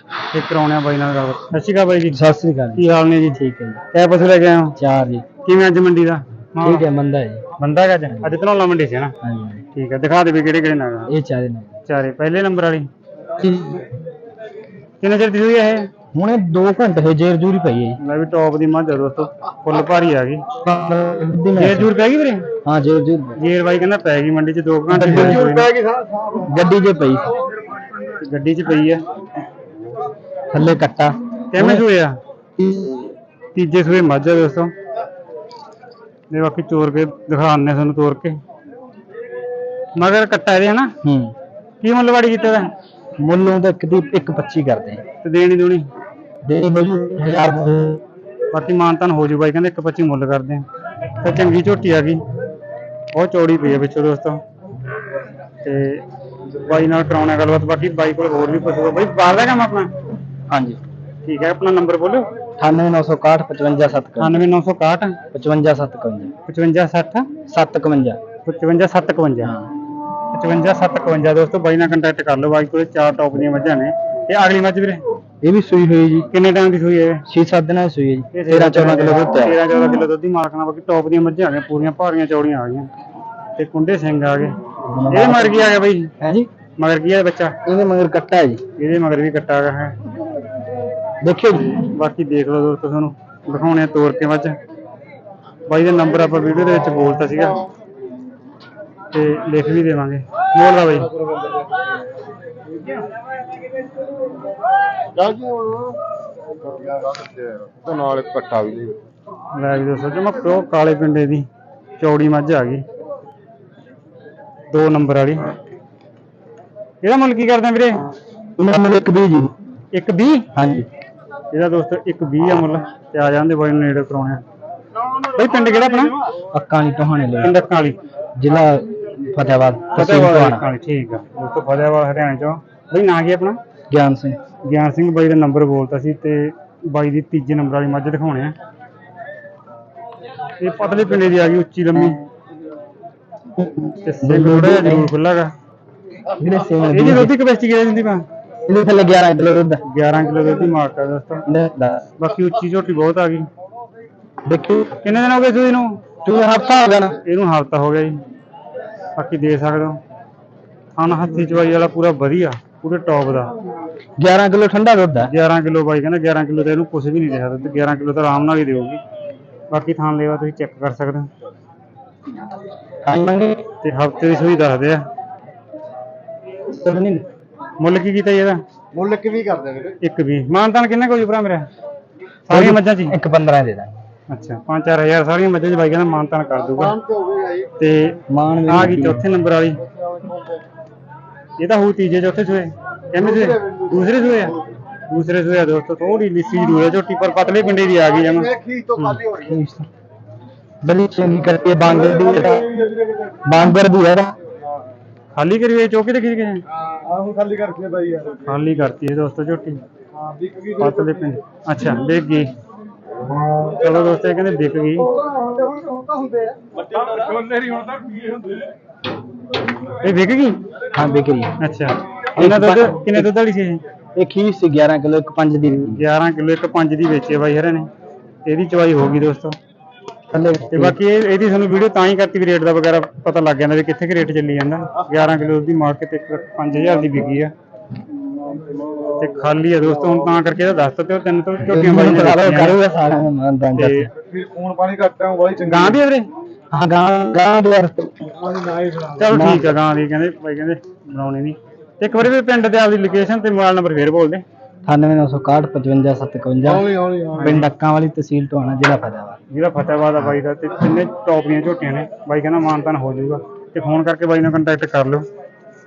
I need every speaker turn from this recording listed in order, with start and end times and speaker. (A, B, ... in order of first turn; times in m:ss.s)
0:00.3-0:02.2 A
0:02.1-0:02.8 B
0:02.8-0:03.4 A
0:03.4-0:03.8 B
0:03.9-0:04.7 A
0:04.8-0:05.3 B
0:05.4-0:06.9 A
0:06.6-0:07.4 B
0:07.6-0:09.1 A
0:09.2-0:09.6 B
0:09.7-0:11.1 A
0:11.1-0:11.7 B
0:11.8-0:12.9 A
0:13.4-0:13.9 B
0:15.0-0:15.9 A
0:16.1-0:18.0 B
0:18.0-0:20.4 A
0:20.6-0:21.9 B
0:21.5-0:22.5 A
0:22.6-0:23.4 B
0:23.4-0:25.8 A
0:24.9-0:25.6 B
0:25.8-0:26.3 C
0:26.3-0:27.4 B
0:28.2-0:29.0 A
0:30.5-0:31.8 B
0:31.5-0:32.2 A
0:32.6-0:32.9 B
0:33.6-0:34.7 A
0:36.3-0:38.4 A
0:40.0-0:40.9 A
0:41.0-0:41.3 B
0:41.8-0:42.7 A
0:43.2-0:45.0 B
0:45.2-0:45.9 A
0:46.4-0:48.0 B
0:48.5-0:50.7 A
0:51.2-0:52.2 A
0:53.1-0:54.4 A
0:55.6-0:56.0 A
0:56.6-0:59.9 A
1:00.5-1:00.8 B
1:01.2-1:02.3 A
1:02.6-1:04.5 B
1:04.2-1:05.2 A
1:05.3-1:06.3 B
1:06.4-1:07.3 A
1:07.5-1:08.2 B
1:08.4-1:09.5 A
1:09.4-1:09.7 B
1:10.3-1:15.0 A
1:15.4-1:16.3 B
1:16.3-1:17.2 A
1:17.3-1:19.6 B
1:18.3-1:22.9 A
1:23.6-1:24.6 A
1:24.9-1:25.7 B
1:25.1-1:26.1 A
1:26.2-1:26.5 B
1:26.8-1:27.6 A
1:27.6-1:28.6 B
1:28.8-1:30.0 A
1:31.2-1:31.8 B
1:31.8-1:34.6 A
1:35.7-1:37.6 A
1:39.1-1:41.1 A
1:45.1-1:46.0 C
1:46.7-1:49.0 C
1:49.5-1:51.4 A
1:52.0-1:52.8 A
1:54.7-1:55.5 A
1:57.0-1:58.0 A
1:58.6-1:59.6 B
1:59.9-2:00.5 A
2:00.5-2:00.9 B
2:01.5-2:04.4 A
2:05.3-2:06.2 A
2:06.5-2:07.6 B
2:07.4-2:08.0 A
2:08.4-2:10.7 B
2:09.9-2:13.6 A
2:13.9-2:14.4 B
2:14.6-2:18.6 A
2:20.6-2:22.2 A
2:23.5-2:25.1 B
2:24.0-2:25.5 A
2:26.4-2:27.3 B
2:26.9-2:28.2 A
2:28.6-2:29.8 B
2:29.8-2:31.4 A
2:31.5-2:32.0 B
2:32.2-2:33.5 A
2:34.4-2:35.0 B
2:35.0-2:36.0 A
2:36.2-2:37.2 B
2:37.2-2:38.2 A
2:39.2-2:40.0 A
2:41.0-2:43.5 A
2:44.2-2:45.3 B
2:45.2-2:49.0 A
2:49.7-2:51.3 A
2:53.0-2:53.6 B
2:53.8-2:55.1 A
2:56.8-2:57.2 A
2:57.8-2:58.6 A
2:58.9-3:00.0 C
3:00.0-3:01.7 A
3:02.5-3:03.1 A
3:02.5-3:03.9 B
3:04.3-3:07.0 A
3:07.0-3:07.7 C
3:07.8-3:09.8 A
3:08.3-3:09.2 B
3:11.6-3:19.2 A
3:18.6-3:19.0 C
3:19.2-3:19.9 B
3:20.8-3:22.8 B
3:22.1-3:23.2 C
3:23.4-3:24.4 B
3:25.3-3:26.6 A
3:26.9-3:28.4 C
3:28.4-3:29.8 A
3:30.2-3:30.9 C
3:30.8-3:32.5 A
3:33.7-3:35.1 A
3:35.3-3:37.5 C
3:39.9-3:40.6 A
3:40.9-3:41.6 B
3:41.6-3:43.8 A
3:42.4-3:43.3 B
3:44.2-3:46.0 B
3:45.8-3:47.9 A
3:48.4-3:49.6 A
3:50.3-3:51.0 B
3:50.7-3:57.5 A
3:59.2-4:02.8 A
4:01.6-4:04.1 B
4:03.8-4:04.1 A
4:04.2-4:05.9 C
4:05.6-4:06.3 A
4:06.7-4:08.4 B
4:08.5-4:09.1 C
4:09.1-4:14.4 A
4:09.3-4:09.7 B
4:14.8-4:19.4 B
4:16.8-4:17.5 C
4:17.4-4:17.7 A
4:19.5-4:25.2 A